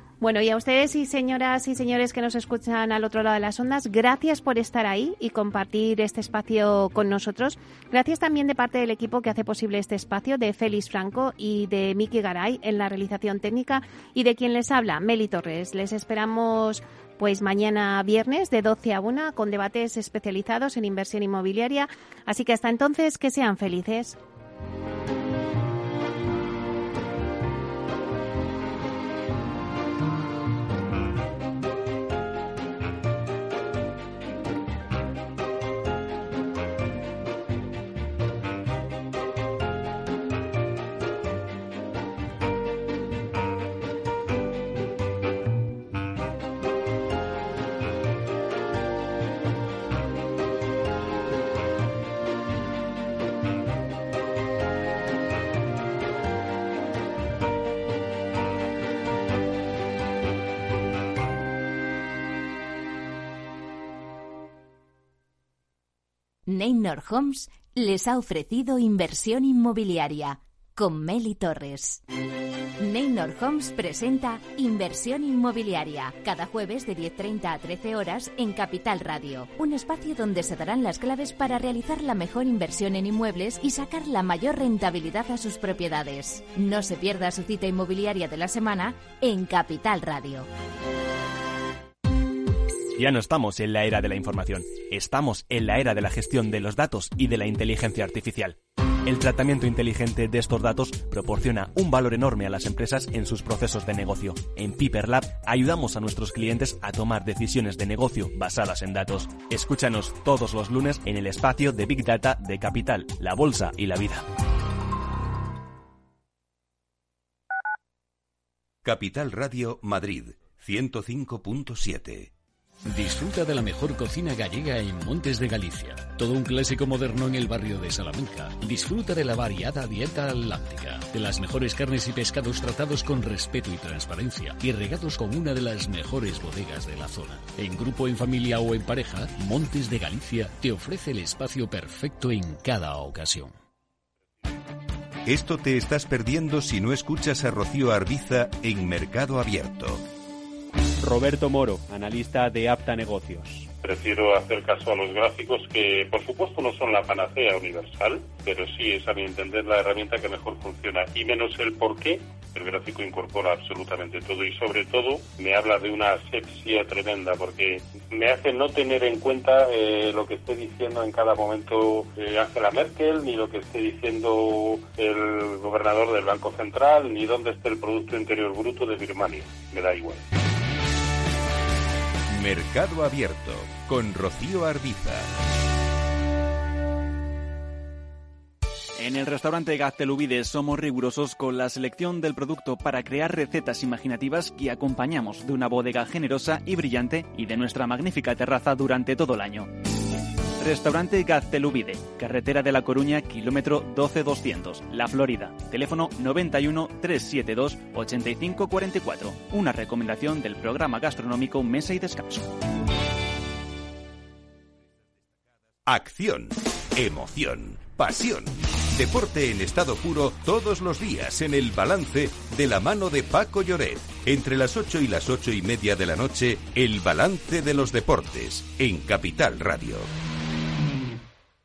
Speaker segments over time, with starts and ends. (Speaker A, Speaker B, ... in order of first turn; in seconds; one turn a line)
Speaker A: 0.2-24.2
Speaker B: 66.5-72.0
Speaker B: 72.8-90.5
Speaker C: 92.9-114.3
Speaker D: 118.8-122.3
Speaker E: 122.8-143.5
Speaker D: 145.2-150.0
Speaker F: 151.0-153.7
Speaker G: 153.8-180.2
Speaker D: 182.3-185.3
Speaker H: 189.0-199.7
Speaker H: 200.6-212.5
Speaker D: 215.8-230.1